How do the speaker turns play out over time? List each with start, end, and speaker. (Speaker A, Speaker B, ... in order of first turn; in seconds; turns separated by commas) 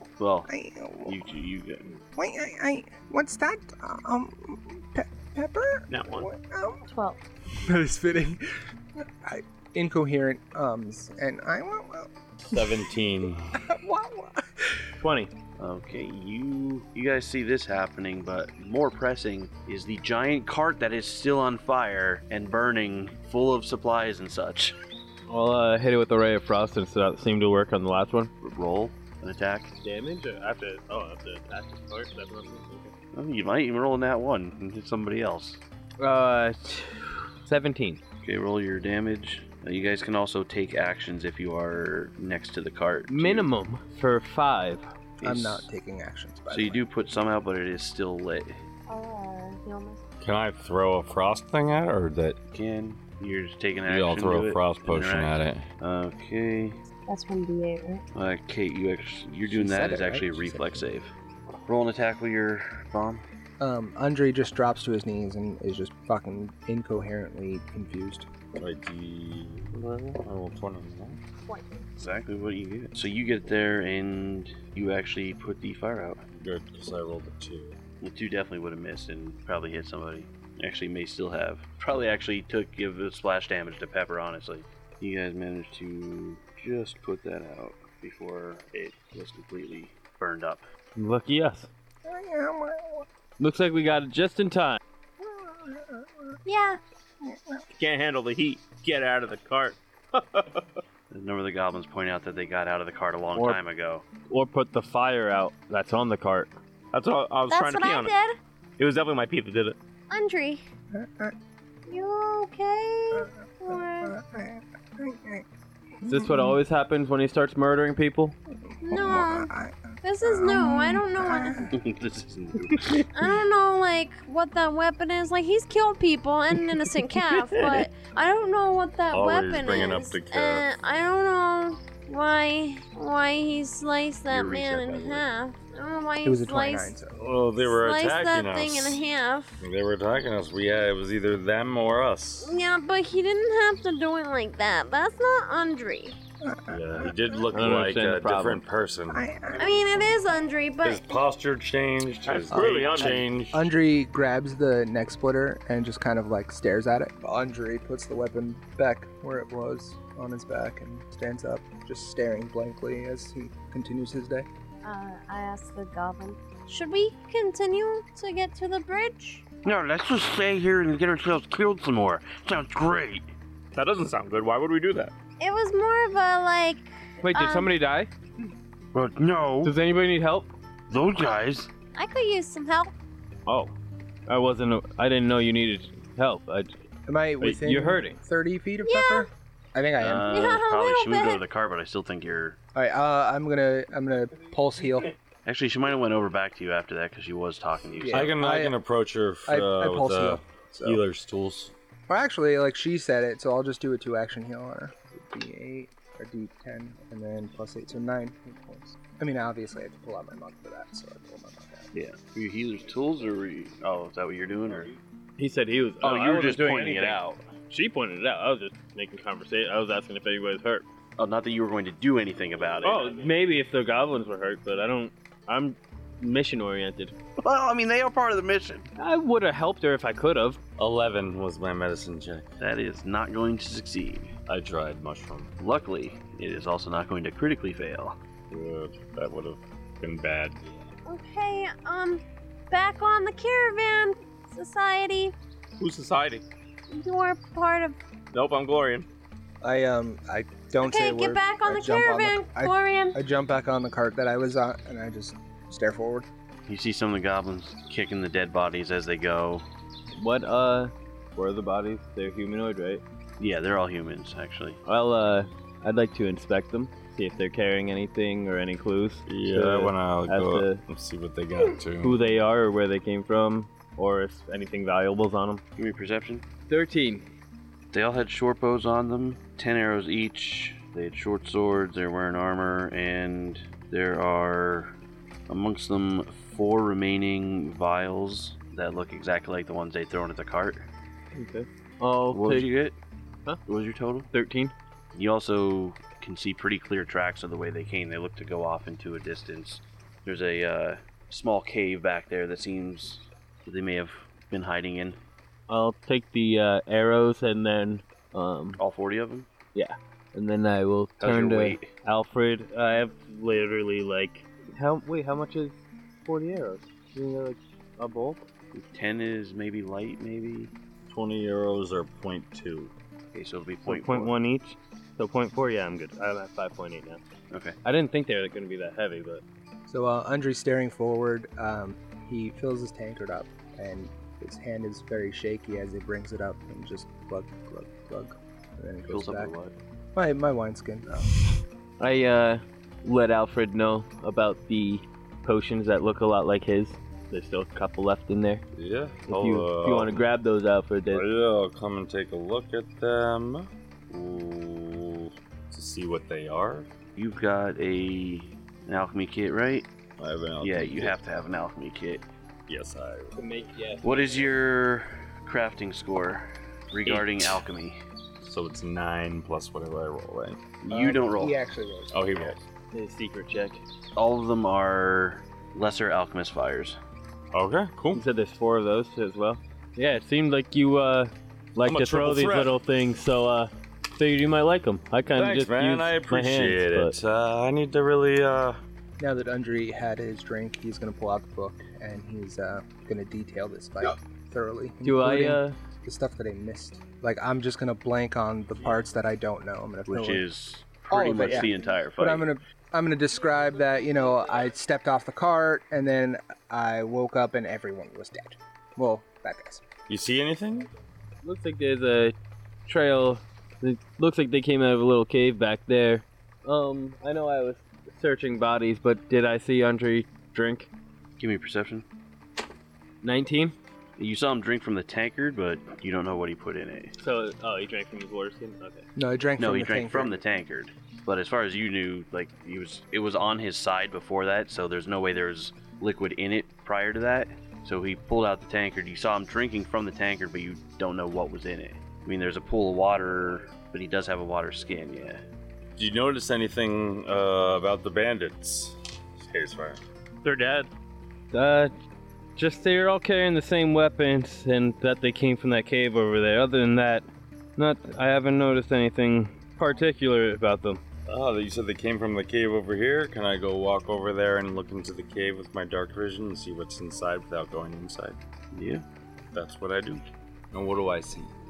Speaker A: 0.2-0.5, Speaker B: 0.5-1.3, Speaker A: 1.0-1.9, Speaker B: 2.1-6.9, Speaker C: 5.9-6.3, Speaker D: 6.9-7.2, Speaker B: 7.5-8.4, Speaker B: 9.0-12.9, Speaker E: 12.4-13.6, Speaker B: 13.6-14.9, Speaker F: 15.0-15.3, Speaker A: 15.6-24.8, Speaker F: 25.3-28.3, Speaker A: 28.4-29.7, Speaker F: 29.8-32.9, Speaker A: 33.1-35.6, Speaker F: 36.0-38.0, Speaker A: 38.2-43.5, Speaker F: 43.1-44.9, Speaker A: 45.2-45.7, Speaker B: 45.2-46.8, Speaker A: 46.5-48.5, Speaker D: 48.9-50.0, Speaker E: 50.2-52.4, Speaker A: 52.5-56.8, Speaker E: 53.8-55.6, Speaker D: 57.0-58.0, Speaker A: 58.1-61.1, Speaker B: 59.5-60.9, Speaker A: 61.7-63.2, Speaker B: 63.6-68.3, Speaker E: 68.6-71.2, Speaker D: 71.4-71.8, Speaker A: 72.0-76.2, Speaker E: 76.4-77.8, Speaker A: 78.0-90.7, Speaker F: 91.0-91.7, Speaker B: 92.0-93.0, Speaker F: 93.4-94.8, Speaker B: 95.2-96.4, Speaker D: 96.4-96.8, Speaker B: 97.2-97.6, Speaker C: 97.7-100.8, Speaker A: 101.1-104.0, Speaker F: 103.3-103.6, Speaker F: 104.3-106.6, Speaker C: 106.9-108.1, Speaker D: 107.5-108.3, Speaker C: 108.8-109.8, Speaker D: 110.1-110.6, Speaker B: 110.9-111.3, Speaker D: 111.9-114.2, Speaker B: 113.1-115.4, Speaker B: 116.0-116.6, Speaker F: 116.0-118.4, Speaker B: 118.7-121.7, Speaker D: 118.8-119.5, Speaker D: 120.0-121.7, Speaker A: 121.7-123.1, Speaker D: 123.1-136.9, Speaker E: 129.1-130.7, Speaker A: 134.3-135.2, Speaker B: 136.2-137.2, Speaker E: 137.2-139.0, Speaker D: 137.7-139.6, Speaker E: 139.6-142.6, Speaker D: 142.4-146.2, Speaker B: 146.4-147.5, Speaker E: 146.7-149.2, Speaker F: 147.5-148.6, Speaker B: 149.1-150.1, Speaker D: 149.5-151.1, Speaker E: 150.8-153.6, Speaker C: 152.2-153.2, Speaker B: 152.5-164.5, Speaker D: 164.8-169.4, Speaker A: 169.6-173.2, Speaker C: 173.7-175.1, Speaker D: 175.4-177.7, Speaker F: 177.2-178.1, Speaker A: 178.9-179.7, Speaker F: 179.6-180.5, Speaker A: 180.9-181.7, Speaker D: 181.9-182.9, Speaker F: 183.4-183.7, Speaker F: 184.3-186.7, Speaker B: 187.1-190.3, Speaker F: 187.4-188.2, Speaker D: 188.8-189.3, Speaker A: 190.0-192.6, Speaker D: 190.3-191.4, Speaker B: 192.7-195.1, Speaker A: 195.4-198.3, Speaker B: 198.0-198.8, Speaker E: 198.1-201.7, Speaker B: 199.5-201.0, Speaker B: 202.1-211.9, Speaker A: 211.9-214.9, Speaker F: 215.4-220.8, Speaker A: 216.0-217.5, Speaker A: 221.2-223.3, Speaker F: 222.8-227.1, Speaker A: 227.4-228.9, Speaker F: 229.0-230.6, Speaker E: 230.8-232.5, Speaker A: 232.6-234.3, Speaker E: 234.5-235.5, Speaker A: 235.6-238.2, Speaker E: 238.5-240.8, Speaker D: 241.1-245.3, Speaker C: 245.8-246.4, Speaker D: 246.9-248.0, Speaker C: 248.3-249.1, Speaker B: 249.6-256.3, Speaker D: 250.8-253.2, Speaker A: 256.7-259.6, Speaker F: 260.1-263.0, Speaker A: 263.4-264.8, Speaker F: 264.8-270.8, Speaker E: 269.3-272.4, Speaker F: 271.6-275.6, Speaker A: 275.8-276.4, Speaker F: 276.7-277.3, Speaker A: 277.9-284.9, Speaker A: 285.5-290.9, Speaker F: 291.3-292.7, Speaker A: 292.3-292.9, Speaker A: 293.7-294.3, Speaker F: 294.3-294.7, Speaker A: 295.1-305.2, Speaker F: 305.7-308.8, Speaker A: 308.8-309.5, Speaker F: 309.7-318.4, Speaker A: 311.2-311.9, Speaker A: 318.7-320.7, Speaker E: 321.1-322.9, Speaker A: 323.3-324.3, Speaker F: 323.9-327.2, Speaker A: 327.5-327.8, Speaker F: 327.8-329.4, Speaker B: 329.9-339.5, Speaker A: 339.1-339.7, Speaker B: 340.1-341.3, Speaker F: 342.0-348.6, Speaker E: 348.8-350.2, Speaker F: 349.3-351.2, Speaker E: 351.1-356.9, Speaker A: 357.1-359.9, Speaker E: 360.2-361.2, Speaker A: 360.6-362.2, Speaker E: 362.7-363.4, Speaker F: 363.3-364.5, Speaker A: 364.0-368.0, Speaker E: 368.4-370.6, Speaker A: 370.8-371.6, Speaker B: 370.9-372.2, Speaker E: 372.1-372.6, Speaker F: 372.9-373.8, Speaker A: 374.1-377.0, Speaker E: 377.5-378.2, Speaker F: 378.1-387.2, Speaker E: 381.8-382.8, Speaker E: 385.3-388.8, Speaker B: 389.2-400.4, Speaker F: 395.0-395.8, Speaker A: 400.1-402.5, Speaker B: 401.1-409.8, Speaker E: 410.1-410.9, Speaker F: 411.4-412.4, Speaker F: 412.9-420.9, Speaker A: 421.4-422.1, Speaker F: 423.2-423.8, Speaker A: 424.2-427.1, Speaker F: 427.2-429.1, Speaker B: 429.1-430.4, Speaker A: 429.6-445.4, Speaker E: 446.0-450.0, Speaker F: 450.4-450.9, Speaker F: 451.5-451.9, Speaker F: 452.6-461.0, Speaker E: 461.3-468.4, Speaker A: 468.7-469.0, Speaker E: 469.5-471.5